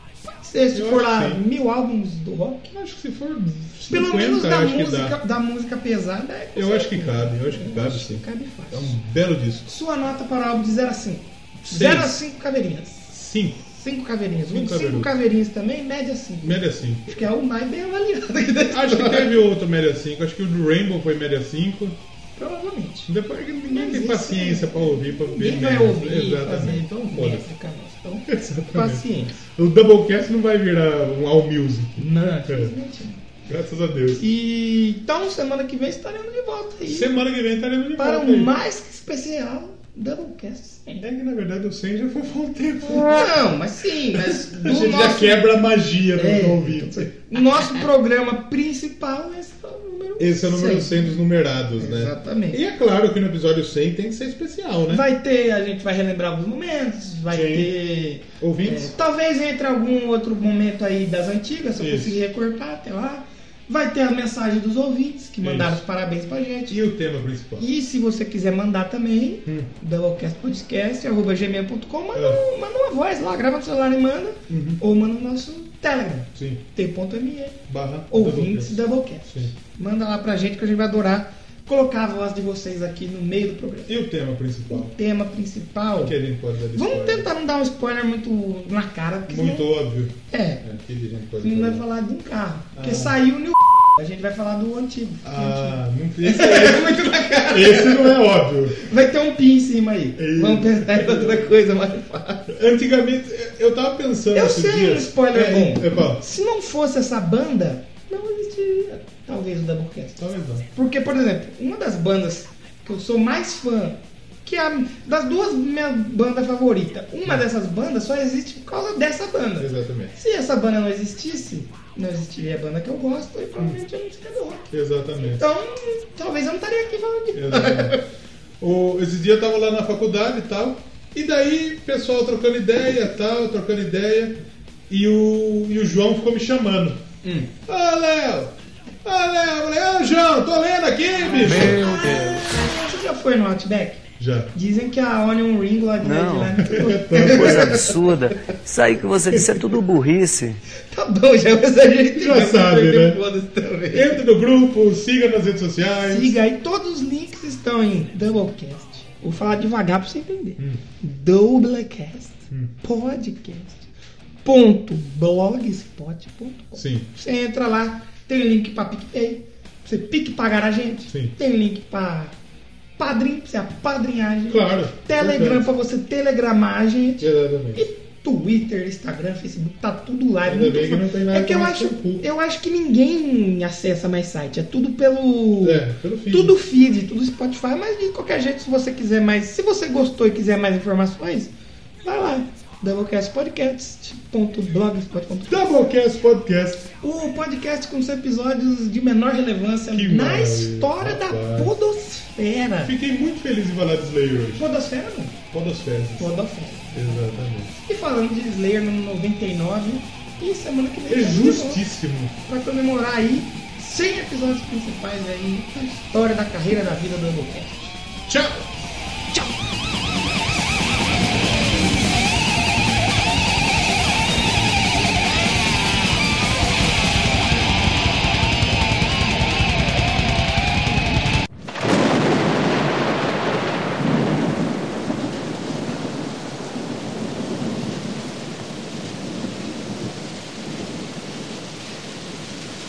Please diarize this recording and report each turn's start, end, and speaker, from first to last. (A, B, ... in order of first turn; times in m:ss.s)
0:00.4-0:02.7 A
0:00.7-0:01.4 B
0:02.7-0:05.2 B
0:03.9-0:09.0 A
0:06.5-0:09.7 B
0:09.6-0:13.1 A
0:11.6-0:12.2 B
0:13.1-0:13.7 B
0:13.7-0:19.4 A
0:14.5-0:15.1 B
0:16.4-0:17.3 B
0:18.7-0:22.0 B
0:22.4-0:23.1 A
0:23.1-0:27.5 B
0:23.6-0:29.4 A
0:28.3-0:32.7 B
0:32.0-0:33.2 A
0:33.4-0:34.2 B
0:34.2-0:37.2 A
0:36.9-0:38.6 B
0:38.0-0:41.1 A
0:41.0-0:43.4 B
0:42.8-0:45.6 A
0:44.1-0:47.1 B
0:46.1-0:51.2 A
0:50.2-0:55.0 B
0:51.8-0:52.6 A
0:54.9-1:06.8 A
0:57.3-0:57.7 B
0:58.4-0:59.0 B
1:01.8-1:02.2 B
1:05.4-1:05.8 B
1:06.7-1:07.6 B
1:07.6-1:24.0 A
1:09.4-1:09.7 B
1:12.1-1:12.4 B
1:14.5-1:14.8 B
1:16.4-1:16.6 B
1:17.7-1:19.5 B
1:23.9-1:24.9 B
1:24.7-1:26.2 A
1:26.0-1:27.3 B
1:26.7-1:30.6 A
1:29.3-1:31.8 B
1:31.4-1:42.5 A
1:32.8-1:33.2 B
1:35.2-1:38.8 B
1:40.2-1:41.6 B
1:42.5-1:46.2 B
1:44.3-1:50.2 A
1:50.2-1:50.7 B
1:50.7-2:04.7 A
1:59.6-2:00.1 B
2:04.7-2:05.4 B
2:05.2-2:08.0 A
2:07.3-2:08.0 B
2:08.6-2:21.9 B
2:17.2-2:17.5 A
2:21.5-2:22.4 C
2:21.5-2:27.8 A
2:24.2-2:24.5 B
2:26.0-2:30.6 C
2:26.6-2:27.8 B
2:30.9-2:34.2 A
2:32.1-2:33.2 B
2:33.9-2:36.4 B
2:36.1-2:43.9 A
2:44.4-2:52.3 A
2:46.8-2:47.1 B
2:51.1-2:51.4 B
2:53.0-3:11.5 A
2:54.5-2:55.7 B
2:57.2-2:57.8 B
3:00.4-3:02.2 B
3:05.6-3:06.6 B
3:12.0-3:15.8 A
3:15.5-3:16.9 B
3:17.0-3:22.9 A
3:19.9-3:21.7 B
3:22.8-3:24.7 B
3:24.5-3:25.4 A
3:25.5-3:26.3 B
3:26.2-3:31.8 A
3:26.9-3:27.7 B
3:31.1-3:32.3 B
3:32.4-3:38.0 A
3:38.3-3:38.7 B